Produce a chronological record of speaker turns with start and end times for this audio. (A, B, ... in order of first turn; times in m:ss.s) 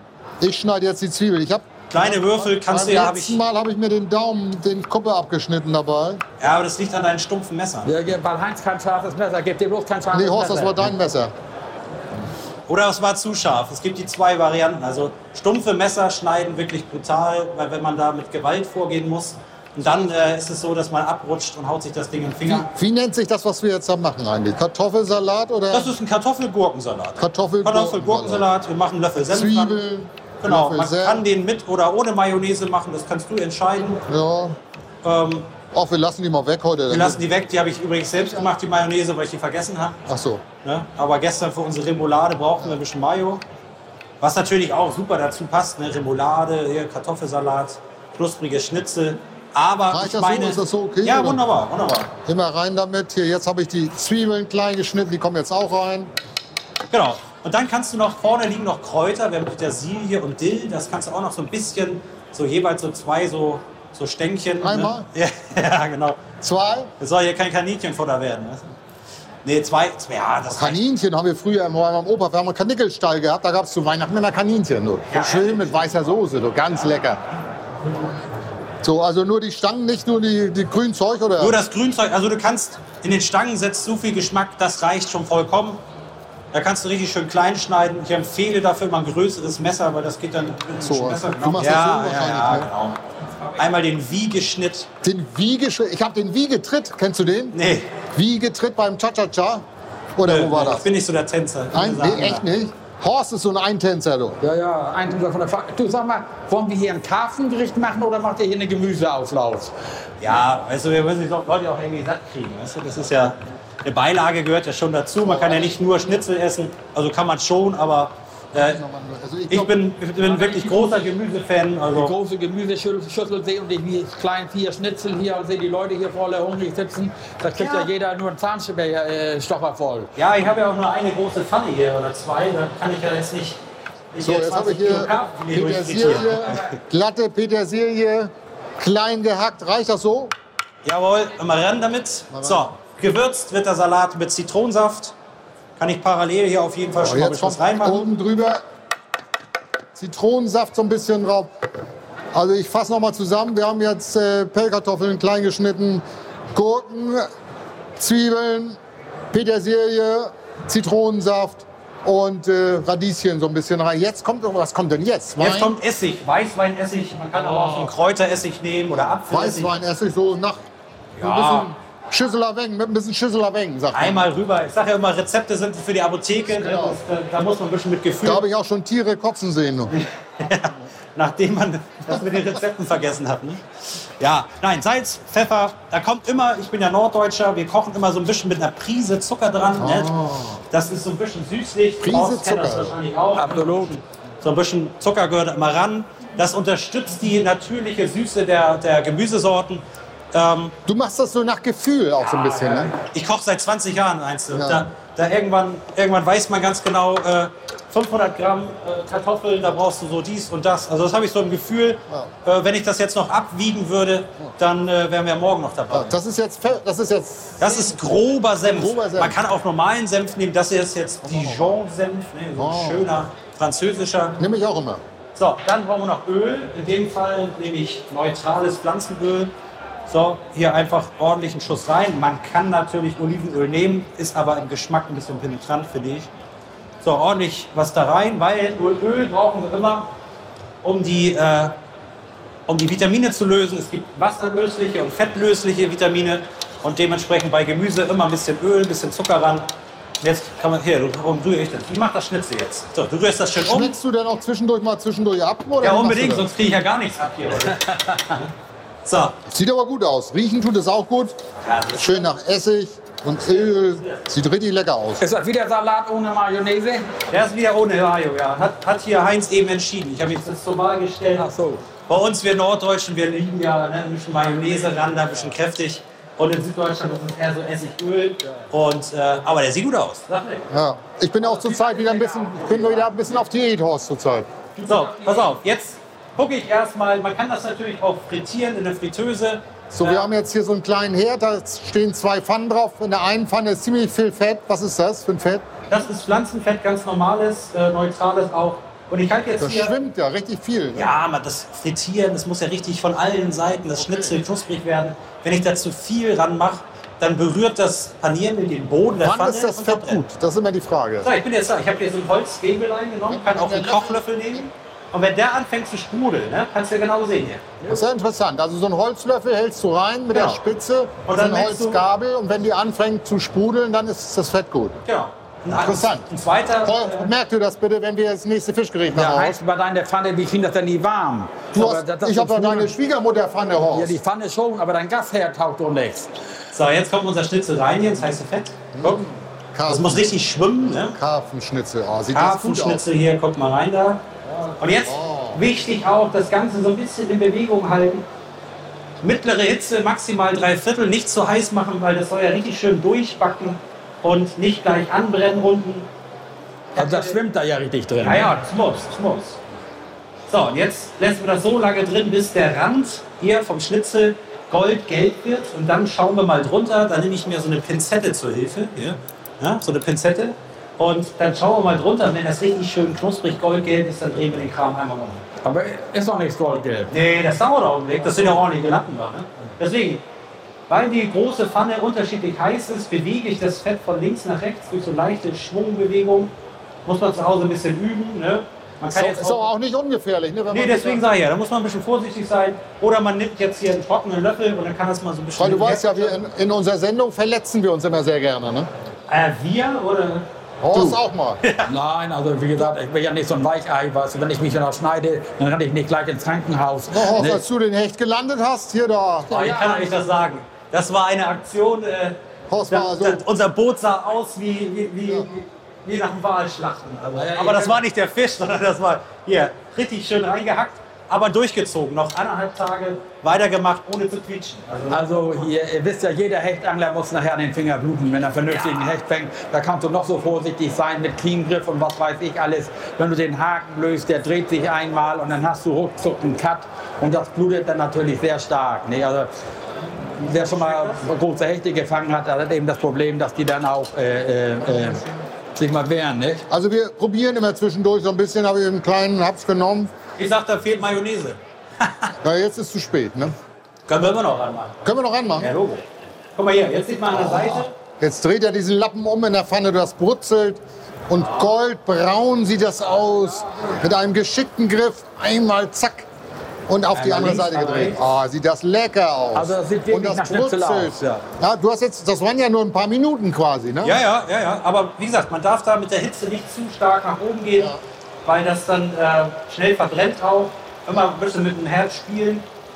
0:00.4-0:01.7 A
0:01.9-0:03.4 B
0:02.4-0:06.2 A
0:06.4-0:07.9 B
0:07.8-0:10.9 C
0:10.1-0:11.3 A
0:12.7-0:22.7 B
0:22.5-0:25.9 A
0:25.7-0:29.8 B
0:27.2-0:28.5 A
0:29.3-0:31.2 A
0:30.4-0:34.0 B
0:34.1-0:34.6 A
0:35.0-0:35.5 B
0:35.7-0:37.2 A
0:36.9-0:40.0 B
0:40.1-0:40.4 A
0:40.6-0:43.4 B
0:44.2-0:52.1 B
0:49.9-0:51.4 A
0:52.2-0:56.1 A
0:56.9-1:06.2 B
1:04.6-1:05.1 A
1:06.4-1:06.9 A
1:07.0-1:08.7 B
1:09.4-1:10.8 B
1:10.5-1:17.2 A
1:15.1-1:15.7 B
1:18.8-1:21.6 A
1:21.4-1:25.8 B
1:26.5-1:33.0 B
1:30.8-1:32.7 A
1:33.6-1:34.9 B
1:35.0-1:37.6 A
1:37.5-1:37.9 B
1:38.1-1:39.6 A
1:40.2-1:40.9 A
1:40.2-1:42.4 B
1:41.7-1:44.4 A
1:44.4-1:49.7 C
1:50.2-1:58.8 B
1:55.2-1:55.8 A
1:58.6-1:59.7 A
1:59.5-2:02.1 B
2:00.2-2:01.0 C
2:01.9-2:10.1 C
2:07.6-2:07.9 B
2:10.2-2:13.6 B
2:14.1-2:16.7 B
2:14.2-2:20.3 A
2:20.8-2:25.2 B
2:22.3-2:22.7 A
2:25.8-2:28.0 B
2:27.0-2:28.6 A
2:29.9-2:31.5 A
2:32.3-2:37.3 A
2:38.0-2:38.8 A
2:39.3-2:45.8 A
2:45.4-2:49.7 B
2:47.4-2:47.9 A
2:48.9-2:50.7 A
2:51.2-2:51.7 B
2:51.2-2:54.3 A
2:53.9-2:58.4 B
2:56.6-2:57.0 A
2:58.2-2:59.9 A
2:59.9-3:03.6 B
3:04.2-3:10.1 B
3:09.8-3:10.6 A
3:10.7-3:20.8 B
3:12.0-3:13.0 A
3:13.4-3:14.0 C
3:20.9-3:22.9 A
3:22.2-3:36.2 B
3:24.5-3:24.9 A
3:35.9-3:38.1 A
3:37.6-3:44.4 B
3:38.6-3:39.4 A
3:42.6-3:43.1 A
3:44.4-3:45.0 A
3:45.4-3:49.5 B
3:50.1-3:56.3 B
3:57.0-4:00.1 B
4:00.8-4:01.8 B
4:02.7-4:09.7 B
4:10.2-4:13.9 B
4:13.6-4:16.5 A
4:15.8-4:18.5 B
4:19.0-4:19.4 B
4:19.5-4:21.4 A
4:21.6-4:22.3 B
4:21.9-4:25.2 A
4:23.5-4:24.2 B
4:25.2-4:27.1 C
4:27.3-4:31.5 B
4:31.4-4:31.8 C
4:32.1-4:40.6 B
4:40.7-4:44.5 A
4:41.4-4:43.0 C
4:44.8-4:45.5 C
4:44.8-4:50.3 B
4:49.9-4:55.7 A
4:55.9-4:59.9 B
4:59.6-5:01.1 A
5:00.9-5:10.2 B
5:04.0-5:04.3 A
5:09.2-5:11.3 A
5:11.2-5:17.8 B
5:13.3-5:14.2 A
5:17.9-5:25.0 A
5:20.3-5:20.6 B
5:21.3-5:22.0 B
5:25.0-5:27.3 B
5:25.7-5:26.3 A
5:26.8-5:29.6 A
5:29.1-5:32.9 C
5:31.7-5:34.2 A
5:33.9-5:36.3 C
5:36.7-5:39.2 B
5:39.0-5:43.0 A
5:39.9-5:41.2 B
5:42.3-5:44.2 B
5:44.5-5:45.6 A
5:44.8-5:48.2 B
5:49.2-5:56.1 B
5:57.0-5:57.4 B
5:57.0-5:58.5 C
5:58.2-5:59.6 B
6:00.5-6:15.4 B
6:15.6-6:17.1 C
6:17.1-6:20.2 B
6:20.9-6:26.5 B
6:27.0-6:29.7 B
6:29.1-6:31.2 A
6:30.7-6:36.4 B
6:35.6-6:38.9 A
6:39.3-6:41.9 B
6:40.8-6:41.6 A
6:41.9-6:47.6 C
6:47.1-6:49.5 A
6:49.5-6:50.2 C
6:49.5-6:52.4 B
6:52.7-6:53.4 A
6:52.9-7:05.7 B
6:57.4-6:58.0 C
7:05.1-7:19.5 C
7:08.7-7:09.1 B
7:20.4-7:25.2 C
7:20.5-7:21.2 B
7:25.8-7:26.6 C
7:26.7-7:30.1 A
7:30.4-7:32.3 B
7:32.4-7:33.6 A
7:34.1-7:35.0 B
7:35.0-7:35.7 A
7:35.6-7:36.0 B
7:36.6-7:37.9 B
7:37.3-7:46.3 A
7:46.9-7:54.2 A
7:47.1-7:48.3 B
7:49.6-7:51.4 C
7:54.0-7:58.0 B
7:58.5-8:02.7 B